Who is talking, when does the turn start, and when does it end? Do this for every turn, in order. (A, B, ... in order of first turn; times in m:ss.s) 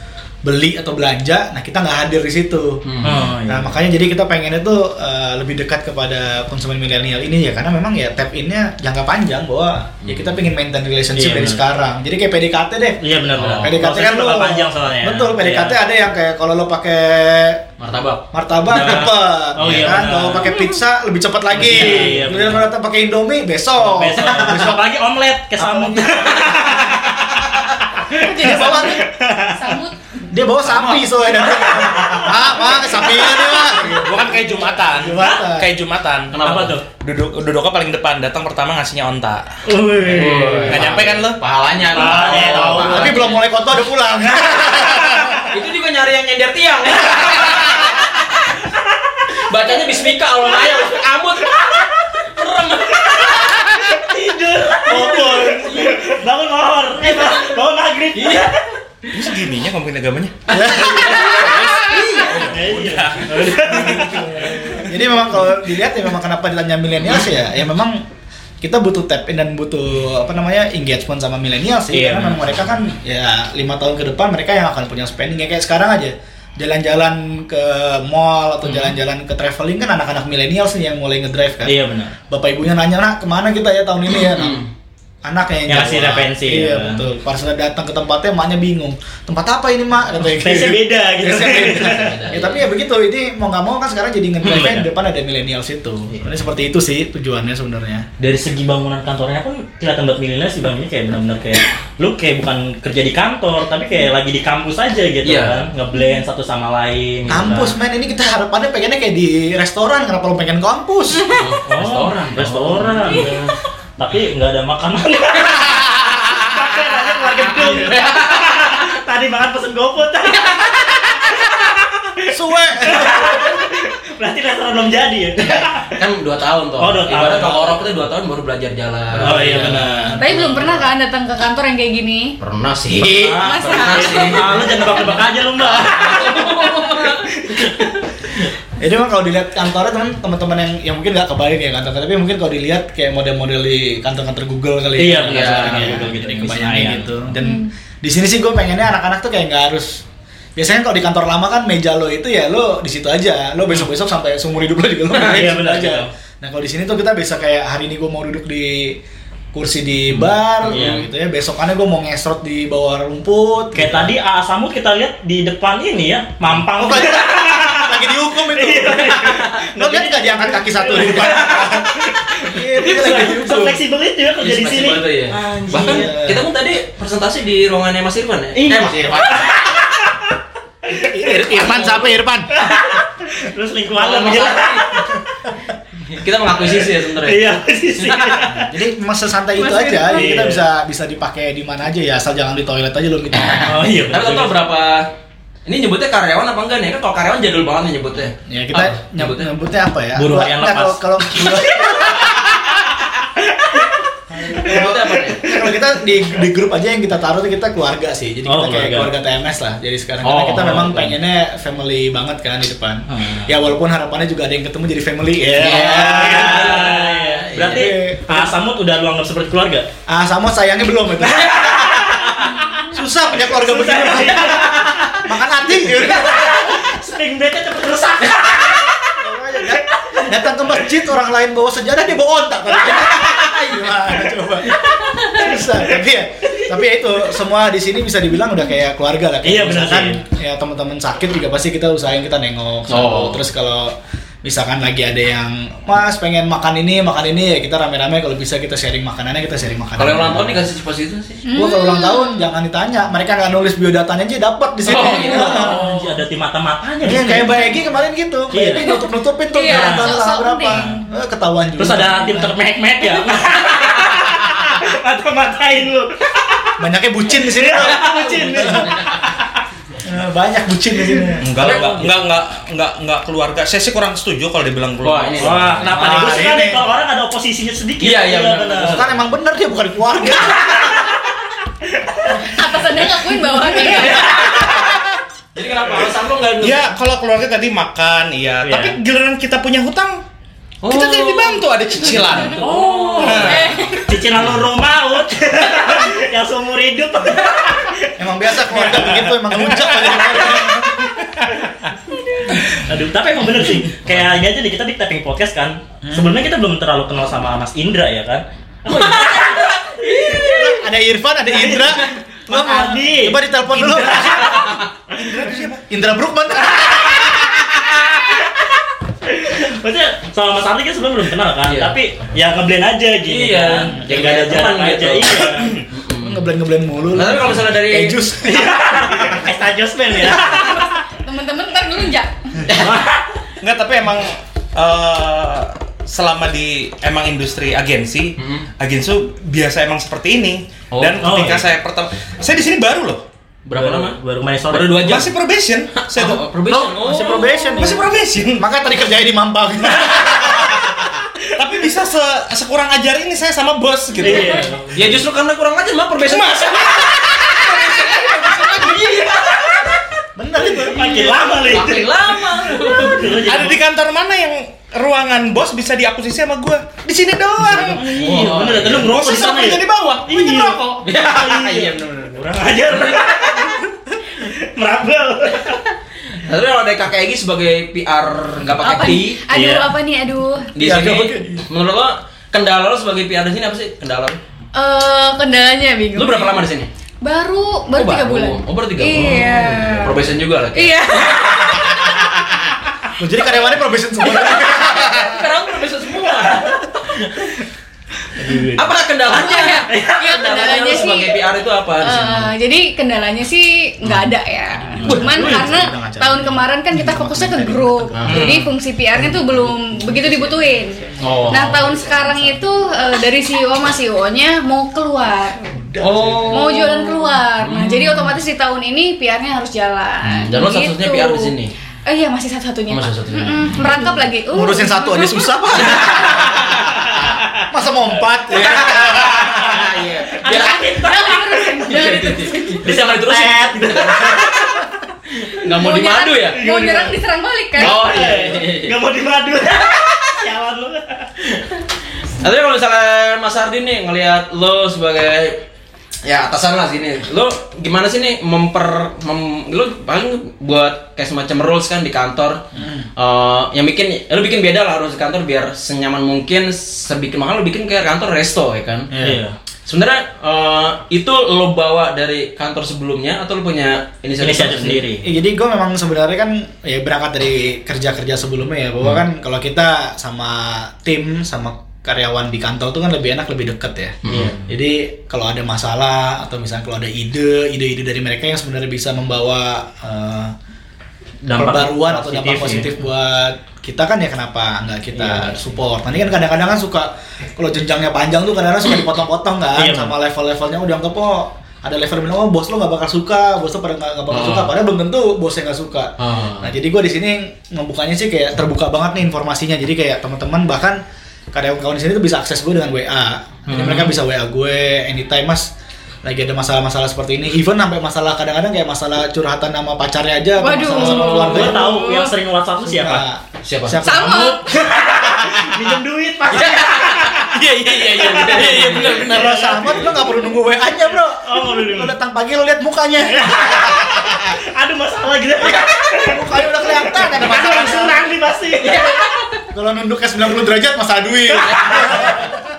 0:00.4-0:02.8 A
0:02.8-0:03.2 B
0:03.0-0:03.7 C
0:03.4-0:17.6 A
0:10.0-0:10.3 B
0:11.1-0:11.6 C
0:13.0-0:15.8 C
0:13.4-0:13.8 B
0:17.8-0:18.2 B
0:18.3-0:24.8 A
0:18.7-0:20.6 C
0:21.5-0:22.6 C
0:23.8-0:27.1 C
0:25.6-0:29.0 A
0:28.1-0:29.7 C
0:28.1-0:30.0 D
0:30.3-0:35.7 A
0:31.4-0:32.5 C
0:33.9-0:36.4 E
0:36.3-0:36.8 B
0:36.4-0:36.8 C
0:36.9-0:39.4 E
0:39.6-0:41.0 C
0:40.0-0:43.4 B
0:40.6-0:41.4 E
0:41.9-0:43.3 C
0:42.7-0:45.5 A
0:45.5-0:48.2 B
0:49.3-0:54.0 B
0:53.6-0:58.6 C
0:54.9-0:56.1 B
0:54.9-0:55.6 A
0:57.0-0:57.6 B
0:58.1-0:58.5 B
0:59.1-1:00.4 E
1:00.5-1:02.6 B
1:00.5-1:01.6 A
1:01.1-1:02.2 D
1:02.3-1:04.8 E
1:02.3-1:04.7 C
1:03.9-1:08.0 A
1:08.6-1:21.8 A
1:11.9-1:12.5 C
1:21.6-1:22.1 C
1:22.3-1:24.6 A
1:24.3-1:24.7 B
1:25.2-1:38.1 A
1:25.7-1:27.1 C
1:30.3-1:32.1 C
1:31.6-1:32.7 B
1:34.4-1:34.9 C
1:38.2-1:47.7 C
1:45.2-1:45.6 B
1:47.3-1:51.3 A
1:51.3-1:53.5 B
1:51.6-1:53.4 C
1:54.0-2:06.0 C
1:57.5-1:58.9 B
2:02.3-2:03.6 A
2:05.4-2:10.8 B
2:06.8-2:07.8 C
2:09.2-2:10.2 C
2:09.2-2:10.2 A
2:10.2-2:12.3 D
2:12.4-2:15.1 B
2:13.0-2:17.9 C
2:13.2-2:15.1 D
2:15.6-2:17.9 B
2:18.8-2:30.0 A
2:25.0-2:27.1 C
2:25.2-2:26.0 B
2:27.4-2:27.7 D
2:30.6-2:39.0 A
2:35.2-2:36.1 C
2:39.5-2:44.1 A
2:40.6-2:41.0 C
2:43.7-2:56.1 C
2:46.7-2:53.8 A
2:51.2-2:51.6 B
2:54.4-2:59.5 B
2:55.6-2:56.4 A
2:58.5-3:00.3 C
3:00.9-3:05.2 C
3:00.9-3:02.6 A
3:01.5-3:02.1 B
3:03.9-3:05.1 B
3:06.1-3:08.5 B
3:07.2-3:08.7 C
3:08.6-3:13.9 A
3:09.6-3:10.3 D
3:10.0-3:10.6 C
3:13.3-3:15.1 B
3:13.6-3:14.6 C
3:15.6-3:19.5 B
3:18.5-3:22.5 A
3:20.1-3:21.8 C
3:24.3-3:37.0 A
3:24.6-3:25.5 B
3:28.4-3:29.1 C
3:30.2-3:31.1 B
3:33.1-3:33.5 C
3:35.5-3:37.9 B
3:35.6-3:39.9 C
3:37.6-3:38.5 A
3:40.1-3:42.2 A
3:41.6-3:42.5 C
3:42.9-3:46.8 A
3:43.4-3:45.2 C
3:44.4-3:45.2 B
3:46.0-3:49.1 C
3:49.1-4:10.6 A
3:49.8-3:50.8 C
3:59.4-4:00.2 C
4:02.9-4:03.4 B
4:10.0-4:11.4 B
4:11.4-4:12.4 D
4:11.5-4:15.8 A
4:14.8-4:15.9 B
4:14.9-4:17.7 C
4:17.0-4:22.6 A
4:18.5-4:18.9 C
4:18.8-4:20.9 D
4:19.6-4:20.1 C
4:20.7-4:21.0 C
4:21.8-4:26.8 C
4:26.8-4:29.0 A
4:27.3-4:29.3 C
4:27.7-4:29.2 B
4:30.0-4:31.6 A
4:31.4-4:35.9 E
4:31.5-4:32.1 C
4:35.0-4:35.9 B
4:35.4-4:39.0 C
4:35.9-4:36.8 A
4:38.0-4:39.2 B
4:38.8-4:41.1 A
4:40.7-4:41.1 C
4:41.9-4:42.5 C
4:42.3-4:44.8 D
4:43.9-4:44.9 B
4:45.5-4:46.9 B
4:46.6-4:50.2 E
4:48.6-4:49.0 C
4:50.8-4:53.6 B
4:50.8-4:53.9 E
4:52.6-4:59.4 C
4:53.4-4:54.1 D
4:58.2-5:01.1 A
4:59.5-5:01.9 E
5:02.5-5:10.5 C
5:06.0-5:06.3 A
5:08.9-5:10.8 B
5:10.4-5:14.8 A
5:11.5-5:14.7 C
5:14.6-5:14.8 B
5:15.1-5:15.8 E
5:15.7-5:18.0 A
5:19.2-5:25.8 C
5:21.6-5:21.9 B
5:23.2-5:26.4 B
5:26.2-5:29.4 A
5:27.1-5:28.2 B
5:28.4-5:31.0 C
5:30.4-5:32.7 D
5:32.7-5:33.0 B
5:32.7-5:33.3 C
5:33.6-5:43.2 E
5:38.4-5:38.7 B
5:40.9-5:41.5 B
5:41.2-5:41.6 C
5:43.6-5:44.2 B
5:43.7-5:45.2 C
5:44.7-5:45.3 B
5:44.9-5:48.7 E
5:45.9-5:47.8 B
5:47.0-5:51.0 A
5:51.4-5:54.9 E
5:54.2-5:54.9 C
5:54.9-6:00.0 B
5:56.2-5:57.5 E
6:00.4-6:01.3 A
6:00.6-6:03.8 C
6:00.9-6:03.4 B
6:03.4-6:08.3 E
6:07.6-6:15.8 C
6:08.1-6:09.1 B
6:08.8-6:11.0 E
6:11.0-6:13.4 B
6:16.4-6:19.4 B
6:18.8-6:20.7 D
6:19.5-6:19.9 C
6:20.7-6:24.4 B
6:20.8-6:21.6 A
6:24.7-6:26.6 D
6:26.1-6:26.9 B
6:27.2-6:30.2 D
6:27.9-6:31.9 B
6:29.1-6:29.8 C
6:30.7-6:32.2 D
6:33.2-6:35.4 A
6:34.3-6:37.1 B
6:36.2-6:37.4 C
6:38.3-6:38.9 C
6:38.8-6:42.5 B
6:39.3-6:41.4 D
6:39.7-6:40.3 C
6:42.0-6:55.7 D
6:45.0-6:48.4 A
6:45.0-6:45.5 C
6:48.2-6:48.6 B
6:48.3-6:48.7 C
6:49.1-6:52.8 A
6:51.2-6:51.9 B
6:55.7-6:56.7 A
6:56.0-6:58.4 B
6:56.5-7:01.5 D
7:00.3-7:01.7 B
7:02.0-7:06.4 D
7:02.9-7:04.1 B
7:04.5-7:09.8 A
7:05.9-7:07.1 B
7:08.5-7:14.8 B
7:10.4-7:12.0 C
7:10.5-7:12.9 D
7:12.8-7:14.7 C
7:15.5-7:16.7 B
7:15.7-7:18.0 D
7:16.5-7:17.2 C
7:17.8-7:18.9 B
7:17.8-7:21.3 C
7:22.4-7:25.6 B
7:26.2-7:32.6 B
7:32.7-7:33.1 A
7:33.2-7:39.1 B
7:39.1-7:39.4 A
7:39.2-7:39.5 C
7:39.9-7:45.0 B
7:44.4-7:45.3 C
7:45.2-8:00.5 A
7:54.2-7:54.5 B
7:54.2-7:54.7 C
8:01.4-8:02.9 C
8:01.5-8:21.0 A
8:05.1-8:05.6 C
8:09.8-8:10.1 C
8:14.3-8:14.7 B
8:16.2-8:16.7 B
8:21.5-8:25.7 A
8:23.7-8:24.2 C
8:26.2-8:32.0 A
8:30.6-8:32.3 D
8:30.9-8:33.2 C
8:32.8-8:34.6 A
8:33.6-8:34.1 B
8:34.0-8:34.8 D
8:34.3-8:37.5 C
8:36.5-8:40.0 B
8:38.1-8:40.0 C
8:38.4-8:44.5 A
8:41.4-8:42.1 C
8:43.2-8:49.2 C
8:45.7-8:48.2 A
8:48.8-8:49.1 B
8:49.7-8:52.6 A
8:51.7-8:52.4 C